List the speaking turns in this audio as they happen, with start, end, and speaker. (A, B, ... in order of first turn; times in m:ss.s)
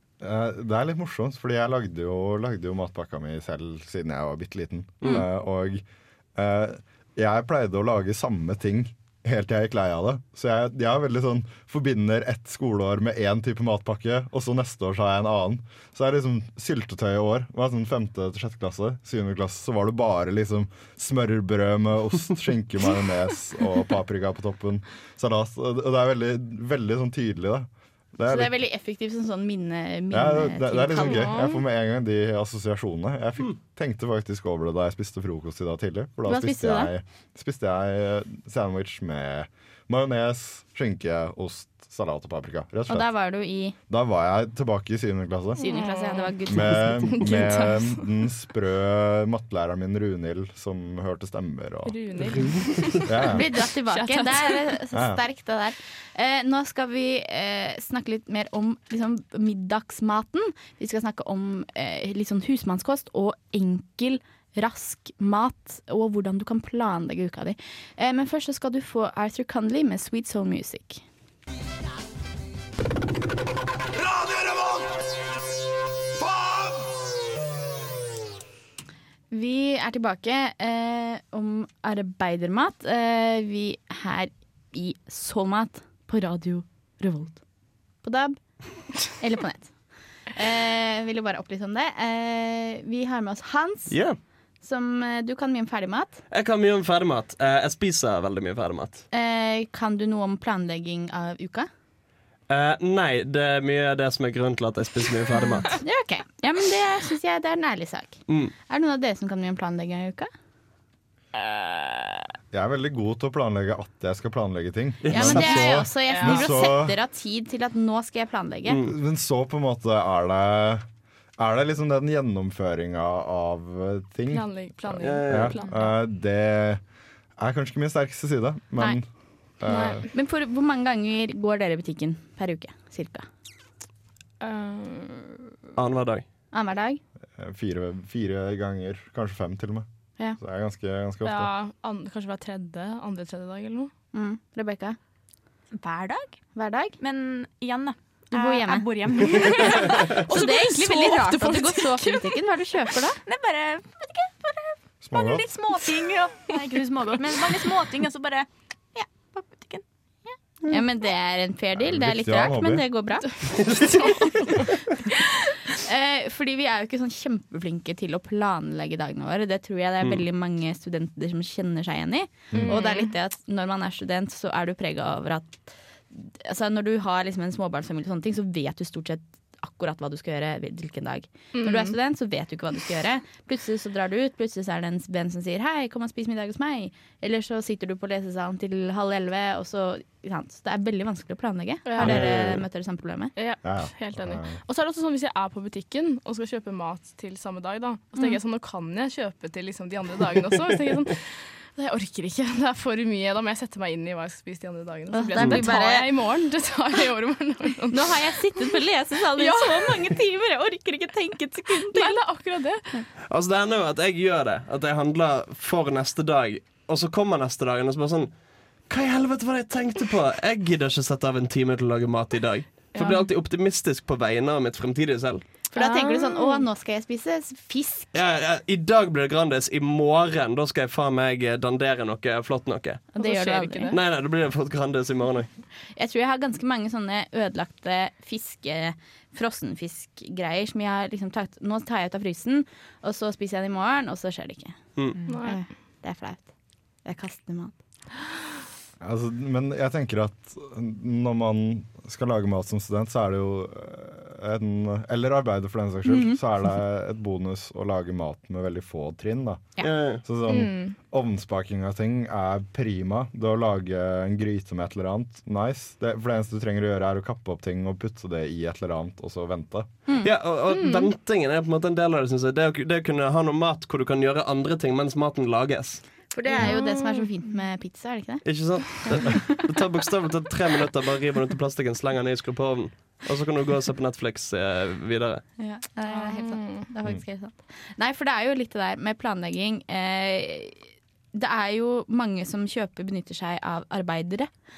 0:00.2-0:28.6 A
0:05.0-0:05.3 B
0:28.3-0:31.3 C
0:30.1-0:43.1 A
0:31.0-0:31.6 D
0:36.3-0:36.9 C
0:42.9-0:43.8 C
0:43.9-0:45.6 A
0:45.6-0:48.0 D
0:45.6-0:47.3 C
0:46.5-0:52.5 A
0:51.8-0:54.7 D
0:53.0-0:53.5 A
0:53.4-1:11.0 C
0:54.9-0:55.2 A
1:19.3-1:27.4 C
1:28.0-1:36.2 C
1:33.9-1:34.2 B
1:36.3-1:39.0 B
1:39.1-1:41.7 C
1:42.5-1:45.8 B
1:45.4-1:45.8 D
1:45.8-1:50.3 C
1:48.3-1:48.5 B
1:51.3-1:52.4 D
1:52.5-1:57.0 A
1:55.0-1:55.8 B
1:55.1-1:58.8 C
1:56.1-1:56.7 D
1:58.7-1:58.9 B
1:58.8-2:00.9 A
2:01.4-2:06.8 A
2:04.3-2:05.9 D
2:05.0-2:05.6 B
2:07.4-2:09.1 A
2:09.6-2:10.0 A
2:09.6-2:13.3 C
2:09.7-2:10.0 D
2:14.4-2:15.6 D
2:15.8-2:16.2 B
2:16.5-2:17.0 C
2:17.4-2:21.5 A
2:21.2-2:23.9 D
2:24.1-2:25.0 C
2:25.7-2:26.4 E
2:26.6-2:27.0 C
2:27.0-2:32.1 E
2:28.3-2:28.9 C
2:30.3-2:33.2 C
2:30.3-2:31.9 D
2:33.2-2:40.4 E
2:35.0-2:35.5 A
2:40.7-2:44.6 C
2:41.8-2:42.9 A
2:43.7-2:44.3 D
2:45.8-3:13.3 C
2:52.5-2:52.8 A
2:52.5-2:53.1 D
3:01.5-3:02.0 D
3:11.8-3:12.3 D
3:12.0-3:12.6 B
3:13.4-3:28.8 D
3:13.6-3:14.6 A
3:25.1-3:26.1 C
3:25.4-3:25.6 B
3:27.9-3:32.3 C
3:29.4-3:30.2 D
3:31.7-3:33.0 D
3:33.3-3:45.5 B
3:42.9-3:43.3 D
3:45.7-3:48.2 C
3:45.7-3:46.6 D
3:48.1-3:53.1 B
3:53.1-3:54.0 D
3:53.2-3:54.0 C
3:53.9-3:55.5 B
3:56.0-4:06.5 C
4:05.3-4:05.7 D
4:07.0-4:07.8 C
4:09.0-4:29.9 A
4:16.1-4:16.4 C
4:19.8-4:20.2 B
4:20.4-4:21.0 D
4:30.2-4:36.3 B
4:30.7-4:31.1 D
4:36.3-4:39.4 C
4:36.5-4:37.3 D
4:38.4-4:45.5 B
4:45.6-4:54.5 C
4:46.1-4:46.9 D